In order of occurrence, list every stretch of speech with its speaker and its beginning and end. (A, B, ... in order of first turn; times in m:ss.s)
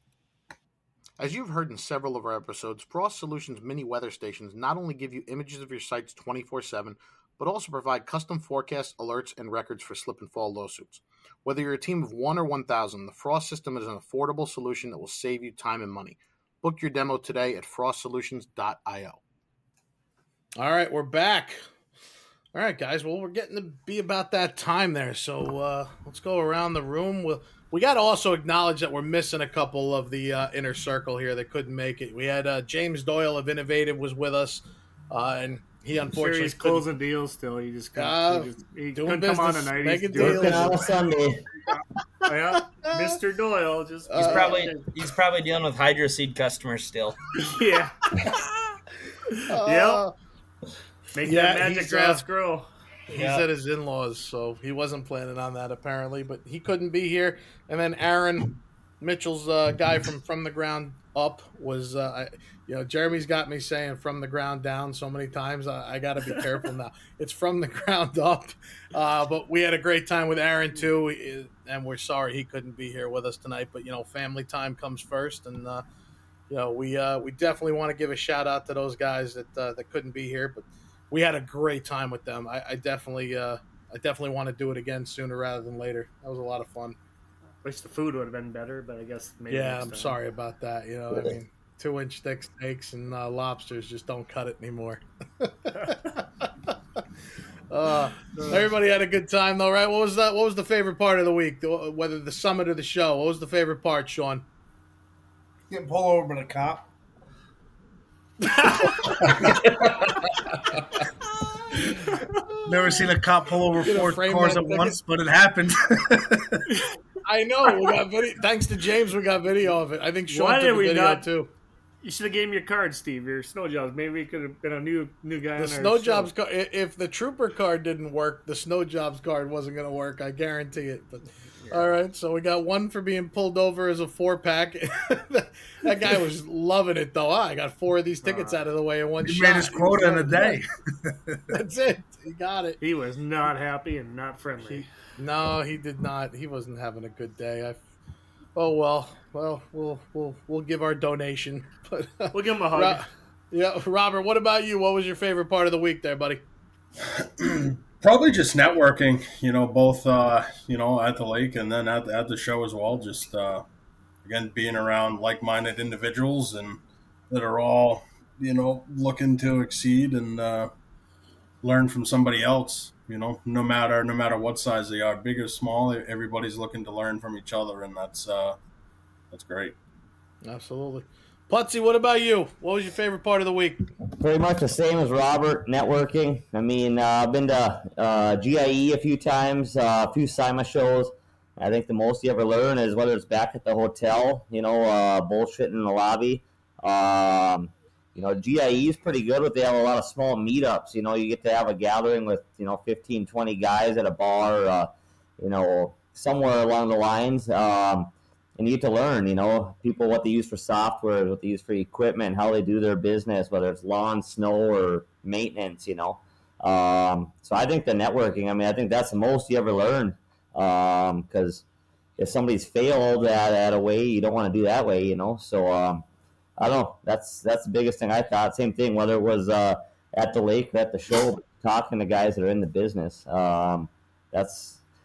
0:01.2-0:19.2 A
0:20.6-0:21.6 A
0:22.5-0:36.8 A
0:36.1-0:40.8 B
0:37.9-0:40.8 A
0:40.1-0:41.4 C
0:42.2-0:44.9 B
0:42.5-0:43.1 A
0:44.1-0:44.7 A
0:44.2-0:47.2 D
0:47.4-0:47.9 B
0:49.3-0:50.0 B
0:49.5-0:50.1 A
0:51.1-0:52.7 B
0:51.2-0:52.2 A
0:53.1-1:15.8 A
0:53.1-0:53.4 D
1:16.5-1:27.0 A
1:27.6-1:30.2 B
1:29.5-1:36.7 A
1:37.7-1:44.4 A
1:38.3-1:38.7 B
1:45.7-1:46.8 E
1:48.5-1:48.9 B
1:49.4-1:49.9 E
1:52.6-1:56.6 E
1:53.8-1:55.0 A
1:56.7-1:56.9 B
1:57.2-2:01.5 A
2:00.3-2:01.3 B
2:02.0-2:06.3 B
2:05.6-2:20.6 A
2:18.2-2:18.6 B
2:19.2-2:21.4 E
2:21.5-2:22.8 A
2:22.8-2:24.9 B
2:24.6-2:27.8 A
2:28.5-2:36.4 A
2:32.3-2:33.1 B
2:37.0-2:43.6 F
2:44.2-2:50.7 F
2:51.6-2:58.6 F
2:59.3-2:59.7 F
3:00.4-3:03.9 A
3:04.1-3:41.6 C
3:42.2-3:46.0 C
3:46.6-3:54.8 C